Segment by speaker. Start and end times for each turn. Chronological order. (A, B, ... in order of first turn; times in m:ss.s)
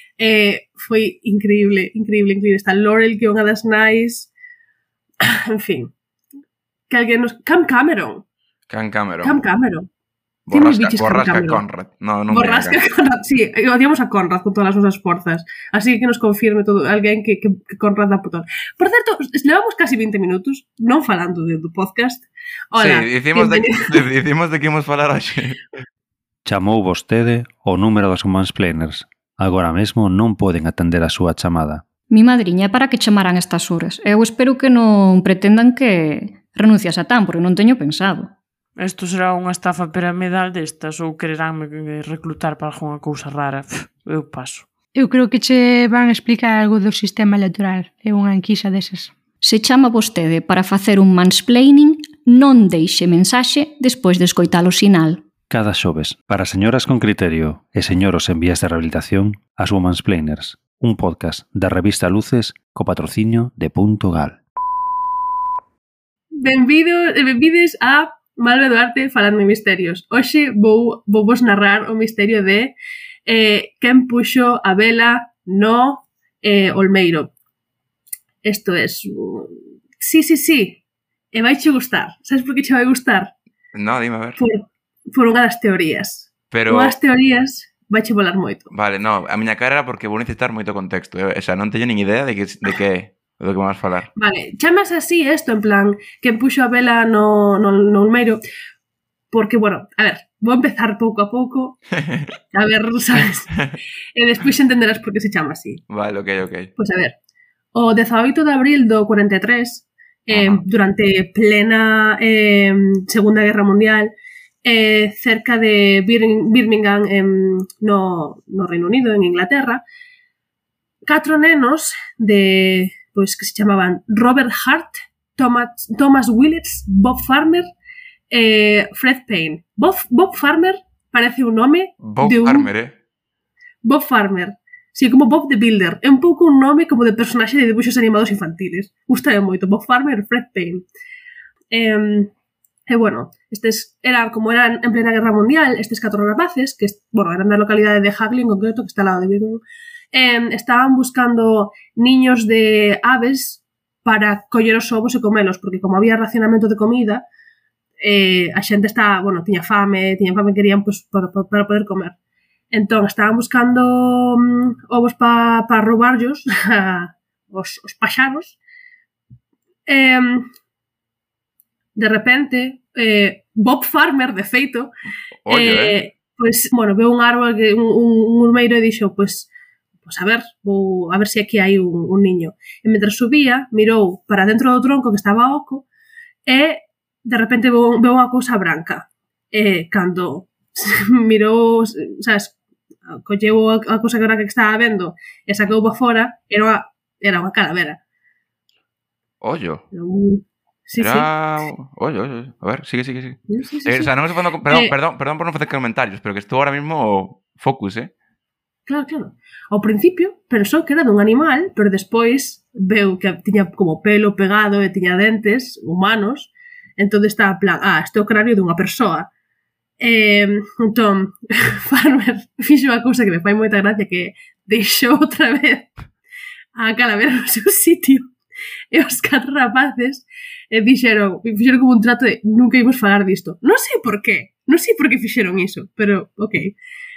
0:00.2-0:04.3 A
0:05.2-0:05.9 A
0:06.9-0:08.3 A
0:08.7-0:09.4 B
0:09.2-0:09.9 A
0:10.5-0:12.8 B
0:10.5-0:11.6 A
0:12.3-0:24.0 A
0:22.8-0:25.6 B
0:26.4-0:31.8 C
0:32.1-0:38.3 D
0:38.8-0:44.7 E
0:45.0-0:49.1 F
0:49.4-0:55.2 D
0:55.5-1:04.4 C
1:06.4-1:12.8 A
1:13.3-1:17.3 A
1:18.4-1:20.8 A
1:21.3-1:23.3 A
1:23.7-1:24.4 B
1:24.4-1:28.7 A
1:26.5-1:27.0 B
1:28.7-1:34.1 B
1:34.2-1:38.4 A
1:39.3-1:41.8 A
1:42.0-1:42.3 B
1:42.5-1:43.5 A
1:44.2-1:45.8 A
1:45.9-1:46.7 B
1:46.8-1:47.2 A
1:47.7-1:54.1 A
1:50.3-1:50.6 B
1:54.6-1:59.8 A
2:01.1-2:07.7 A
2:08.3-2:12.7 A
2:12.0-2:13.0 B
2:13.8-2:20.8 A
2:21.7-2:22.3 A
2:22.9-2:29.6 A
2:30.1-2:37.2 A
2:38.0-2:42.2 A
2:42.7-2:48.6 A
2:49.9-2:50.5 A
2:52.0-2:54.9 A
2:55.4-2:56.0 B
2:55.5-2:59.5 A
3:00.0-3:05.8 A
3:06.5-3:12.6 A
3:13.1-3:18.0 A
3:19.4-3:19.8 B
3:19.9-3:21.3 A
3:21.0-3:28.1 B
3:23.5-3:24.1 A
3:24.7-3:24.9 A
3:28.9-3:39.3 A
3:40.0-3:45.9 A
3:46.8-3:48.3 A
3:48.9-3:56.8 A